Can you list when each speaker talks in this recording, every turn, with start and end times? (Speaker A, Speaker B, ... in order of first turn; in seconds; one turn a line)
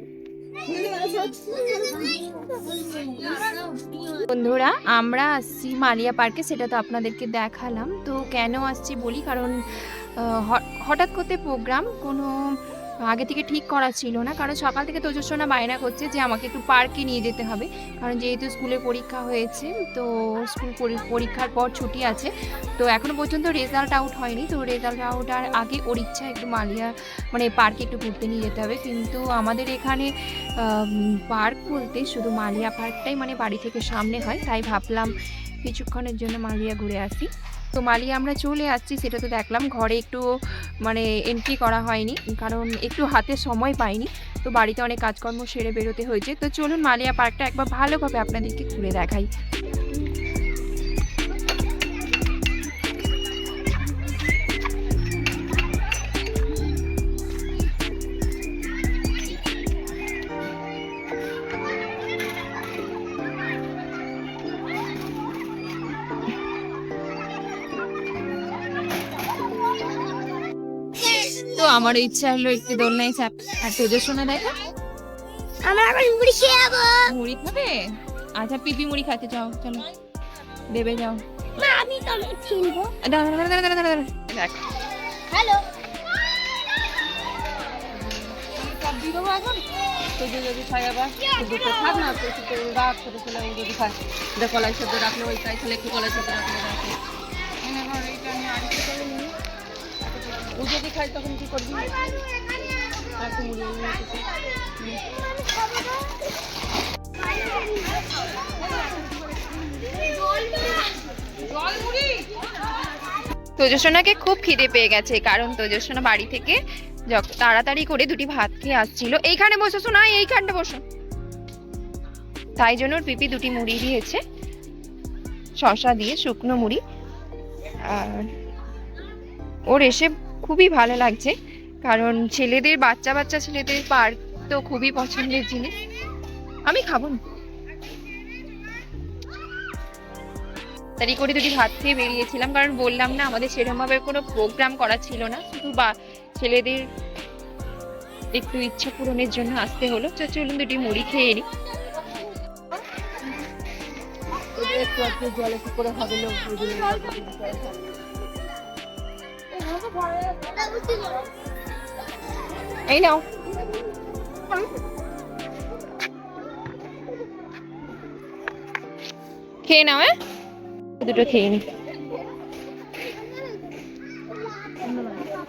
Speaker A: 0.6-3.4
Speaker B: 4.3-40.2
Speaker B: 40.8-49.3
Speaker B: 71.2-74.5
Speaker A: 75.6-77.1
Speaker B: 77.0-79.8
Speaker B: 80.7-81.2
Speaker A: 81.6-82.9
Speaker B: 83.0-84.7
Speaker A: 85.3-85.7
Speaker C: 88.3-89.6
Speaker C: 90.2-97.0
Speaker C: 97.6-99.3
Speaker C: 100.5-102.0
Speaker C: 103.2-104.2
Speaker A: 107.4-107.7
Speaker C: 111.7-112.2
Speaker B: 113.6-116.6
Speaker B: 117.1-120.8
Speaker B: 122.6-124.2
Speaker B: 125.6-126.8
Speaker B: 127.8-128.3
Speaker B: 129.7-135.8
Speaker B: 136.7-137.2
Speaker B: 141.0-146.8
Speaker B: 148.3-151.4
Speaker C: 154.5-157.8
Speaker A: 160.6-161.2
Speaker B: 162.8-163.2
Speaker B: 169.6-170.1
Speaker B: 171.0-171.7